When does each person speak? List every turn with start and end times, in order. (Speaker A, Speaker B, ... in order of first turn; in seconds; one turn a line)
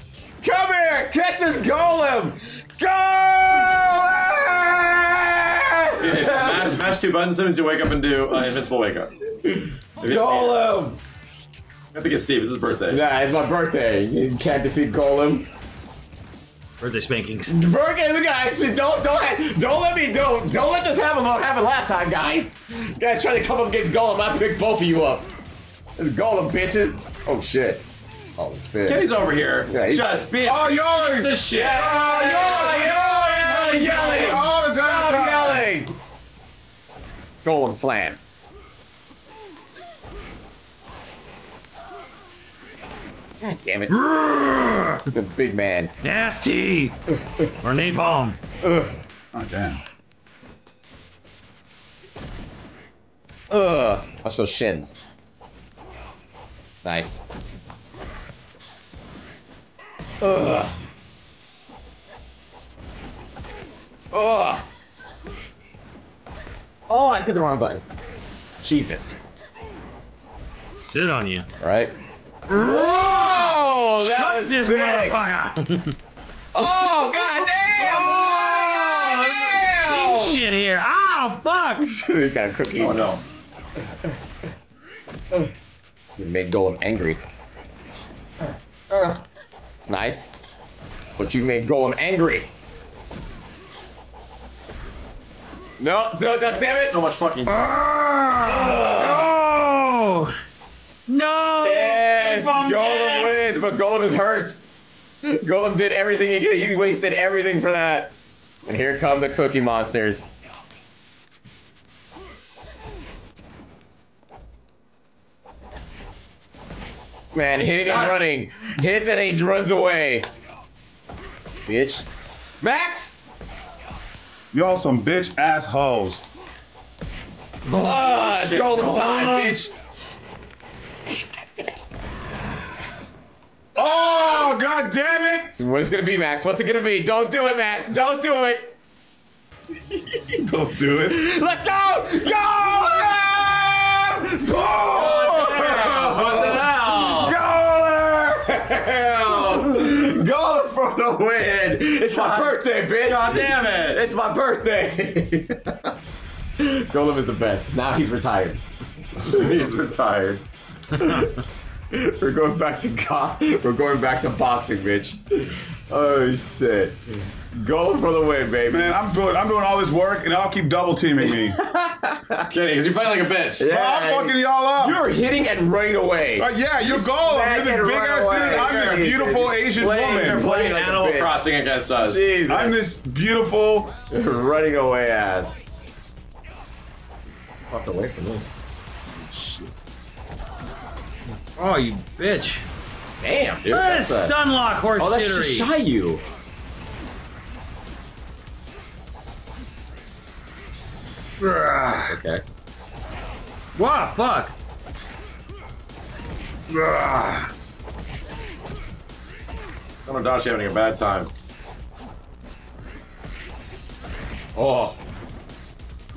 Speaker A: 0.4-6.8
Speaker B: 6.0-9.1
Speaker A: 9.4-11.0
Speaker B: 10.0-10.6
Speaker B: 11.9-13.0
Speaker A: 12.9-15.5
Speaker C: 16.8-17.5
Speaker A: 17.5-25.3
Speaker A: 26.0-27.8
Speaker A: 28.4-29.1
Speaker B: 28.9-32.1
Speaker A: 29.6-30.2
Speaker D: 30.4-35.6
Speaker A: 31.5-35.9
Speaker A: 37.4-38.2
Speaker A: 43.4-44.0
Speaker C: 43.9-45.1
Speaker A: 45.1-45.9
Speaker C: 46.0-48.4
Speaker A: 48.6-48.9
Speaker D: 49.3-49.8
Speaker A: 53.5-54.9
Speaker A: 56.8-57.2
Speaker A: 60.2-60.7
Speaker A: 64.1-64.7
Speaker A: 66.9-67.8
Speaker A: 68.6-69.1
Speaker C: 70.9-71.5
Speaker A: 71.6-71.9
Speaker A: 72.5-75.2
Speaker C: 72.6-73.3
Speaker C: 74.0-75.9
Speaker A: 76.5-80.4
Speaker C: 77.8-81.9
Speaker A: 81.8-83.1
Speaker B: 82.8-83.2
Speaker A: 86.2-87.2
Speaker A: 88.9-89.2
Speaker A: 89.9-90.3
Speaker A: 91.2-92.5
Speaker A: 95.8-97.0
Speaker B: 96.8-97.6
Speaker C: 97.5-100.3
Speaker A: 98.5-99.2
Speaker C: 101.1-103.3
Speaker A: 101.6-104.6
Speaker A: 105.2-108.1
Speaker A: 108.6-110.3
Speaker A: 117.3-120.3
Speaker B: 117.9-118.2
Speaker A: 121.7-122.1
Speaker A: 122.6-123.1
Speaker D: 124.5-126.2
Speaker C: 127.7-129.6
Speaker A: 127.7-129.7
Speaker B: 128.4-128.9
Speaker D: 133.7-135.5
Speaker A: 135.5-138.7
Speaker A: 139.9-140.4
Speaker D: 140.3-141.2
Speaker A: 141.0-155.9
Speaker B: 144.8-147.4
Speaker D: 144.9-145.7
Speaker B: 152.0-154.0
Speaker A: 156.6-158.6
Speaker B: 159.2-160.4
Speaker A: 160.9-168.9
Speaker D: 168.7-171.6
Speaker A: 171.2-172.5
Speaker B: 172.4-173.6
Speaker A: 173.6-181.4
Speaker D: 173.7-175.0
Speaker D: 176.4-180.4
Speaker B: 179.8-182.2
Speaker A: 182.0-182.8
Speaker D: 182.5-183.9
Speaker A: 184.1-185.5
Speaker A: 187.7-188.5
Speaker C: 189.2-189.7
Speaker C: 191.6-192.7
Speaker A: 193.2-194.3
Speaker C: 193.7-195.7
Speaker A: 195.0-196.2
Speaker C: 201.4-202.2
Speaker A: 202.1-202.4
Speaker C: 203.7-204.5
Speaker C: 206.7-207.5
Speaker B: 210.1-211.3
Speaker A: 214.5-215.0